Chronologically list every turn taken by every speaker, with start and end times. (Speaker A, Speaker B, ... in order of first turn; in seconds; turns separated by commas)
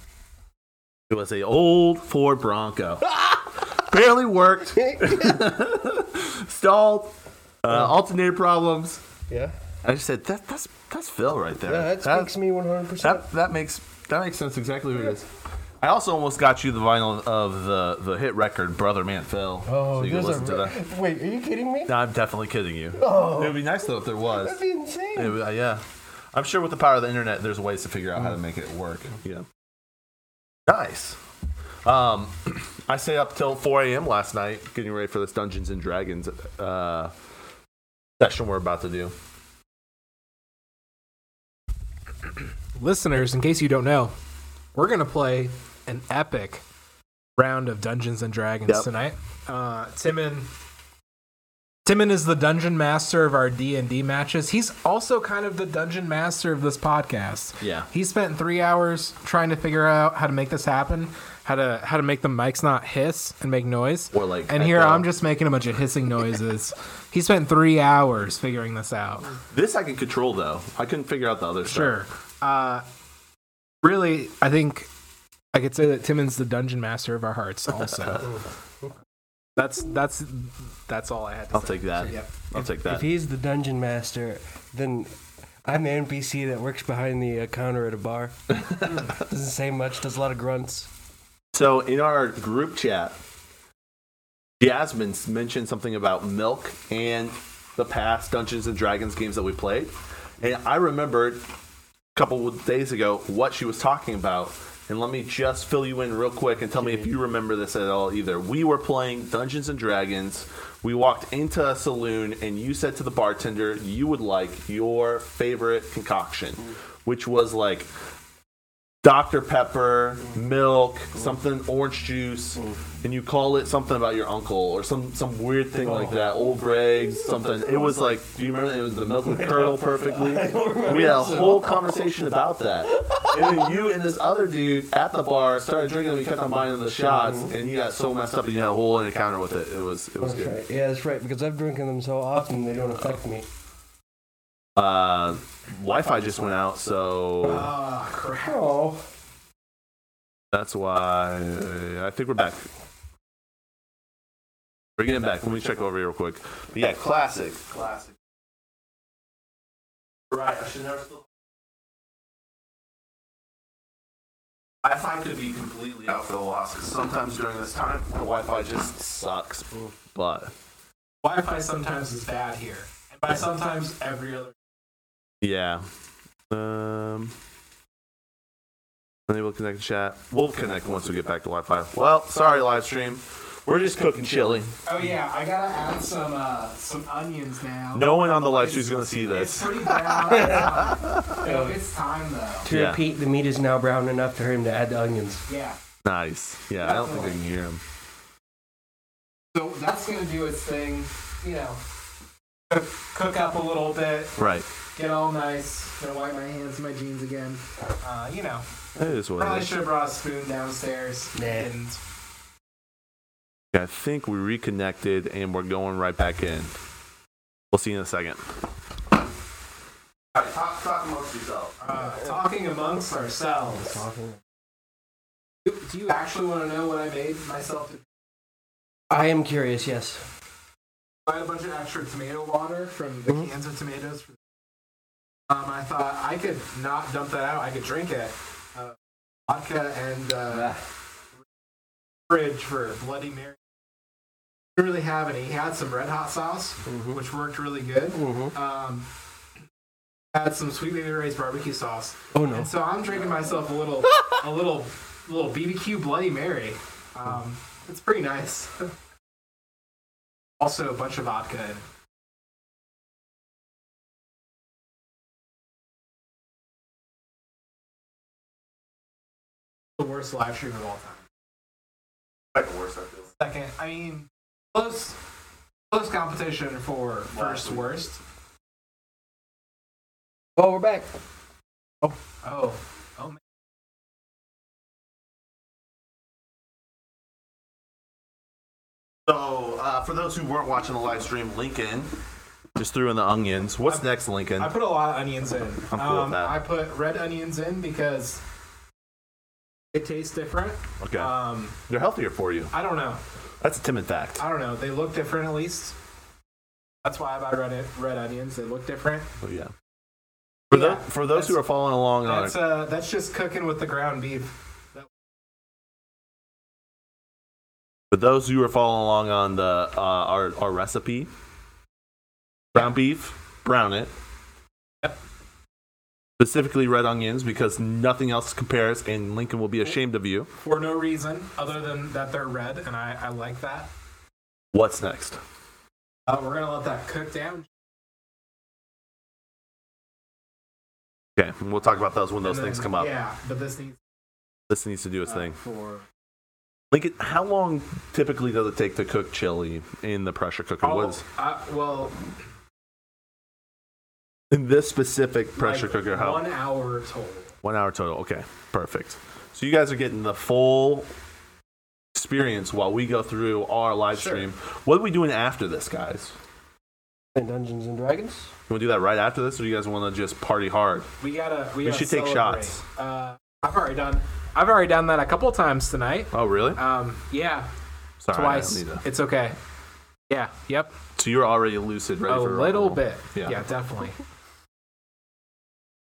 Speaker A: 1.1-9.0, Speaker B: 4.8-5.5, Speaker B: 9.3-9.5, Speaker A: 9.8-12.3, Speaker B: 11.7-13.2, Speaker A: 13.0-15.3, Speaker A: 15.8-20.8, Speaker B: 19.7-21.9, Speaker A: 21.9-24.6, Speaker B: 22.9-23.7, Speaker B: 24.3-25.4, Speaker A: 25.1-29.5, Speaker A: 30.7-31.2, Speaker A: 31.8-37.1, Speaker A: 38.2-39.1, Speaker C: 42.8-44.1, Speaker C: 44.7-46.6, Speaker C: 47.4-50.5, Speaker C: 51.8-69.3, Speaker A: 57.6-57.9, Speaker A: 64.1-65.1, Speaker A: 69.5-72.0, Speaker C: 71.7-72.8, Speaker C: 73.8-74.9, Speaker C: 75.5-78.3, Speaker C: 79.5-82.3, Speaker A: 81.5-83.0, Speaker B: 82.8-85.1, Speaker B: 85.6-90.9, Speaker A: 88.5-88.8, Speaker A: 91.5-93.2, Speaker A: 94.6-101.4, Speaker A: 102.1-117.9, Speaker A: 119.0-140.6, Speaker B: 129.4-131.8, Speaker B: 132.9-133.4, Speaker B: 137.1-137.5, Speaker B: 140.2-143.4, Speaker A: 144.8-147.7, Speaker C: 147.4-148.6, Speaker B: 148.4-149.0, Speaker A: 150.5-152.7, Speaker A: 155.0-158.2, Speaker A: 160.3-161.2, Speaker A: 164.8-170.5, Speaker C: 171.2-174.5, Speaker A: 175.4-175.8, Speaker A: 176.5-177.3, Speaker A: 179.3-184.7, Speaker C: 184.8-188.1, Speaker A: 187.9-191.3, Speaker C: 189.0-192.7, Speaker B: 190.3-190.7, Speaker B: 191.4-191.8, Speaker B: 192.6-195.4, Speaker A: 192.7-193.0, Speaker C: 195.5-195.8, Speaker A: 196.0-197.8, Speaker C: 196.8-197.3, Speaker C: 199.5-201.8, Speaker C: 202.7-204.3, Speaker A: 204.3-204.7, Speaker C: 204.9-208.6, Speaker A: 208.9-209.7, Speaker C: 209.3-212.0, Speaker B: 211.3-211.7, Speaker A: 213.7-216.7, Speaker A: 217.7-218.4, Speaker A: 220.3-221.8, Speaker C: 221.8-224.0, Speaker B: 223.7-224.4, Speaker C: 225.6-228.0, Speaker B: 229.1-230.2, Speaker C: 231.2-234.4, Speaker C: 235.5-238.9, Speaker C: 239.5-240.7, Speaker B: 240.5-240.8, Speaker C: 242.3-243.6, Speaker C: 244.8-249.1, Speaker B: 246.9-247.2, Speaker B: 248.1-248.5, Speaker C: 250.3-258.9, Speaker B: 252.3-252.7, Speaker C: 260.6-261.8, Speaker C: 270.0-271.2, Speaker A: 272.5-273.3, Speaker C: 273.4-275.2, Speaker C: 275.9-278.2, Speaker A: 277.3-277.8, Speaker B: 280.6-281.1, Speaker C: 282.0-283.4, Speaker A: 289.2-292.1, Speaker A: 292.8-294.7, Speaker C: 294.6-298.4, Speaker A: 295.9-296.5, Speaker C: 299.9-301.8, Speaker A: 301.0-301.3, Speaker A: 301.9-302.7, Speaker C: 302.7-303.2, Speaker A: 303.6-304.4, Speaker C: 304.4-305.9, Speaker C: 307.0-309.4, Speaker A: 309.4-309.7, Speaker A: 310.7-312.6, Speaker C: 310.7-311.6, Speaker C: 312.2-315.1, Speaker A: 318.1-321.3, Speaker A: 322.7-324.1, Speaker A: 326.4-330.5, Speaker C: 330.6-333.9, Speaker A: 334.7-335.4, Speaker C: 336.3-337.7, Speaker A: 341.4-343.1, Speaker C: 342.4-344.0, Speaker A: 344.7-345.6, Speaker C: 345.2-346.1, Speaker A: 346.9-351.2, Speaker C: 350.8-352.1, Speaker A: 354.5-356.4, Speaker C: 355.6-357.5, Speaker A: 357.6-361.1, Speaker A: 362.1-366.3, Speaker C: 364.1-364.4, Speaker B: 367.3-368.5, Speaker A: 368.7-371.1, Speaker C: 371.2-377.7, Speaker A: 371.8-372.8, Speaker A: 376.3-376.8, Speaker A: 378.2-379.0, Speaker C: 378.3-379.6, Speaker C: 380.3-380.9, Speaker A: 381.1-383.6, Speaker C: 382.3-384.2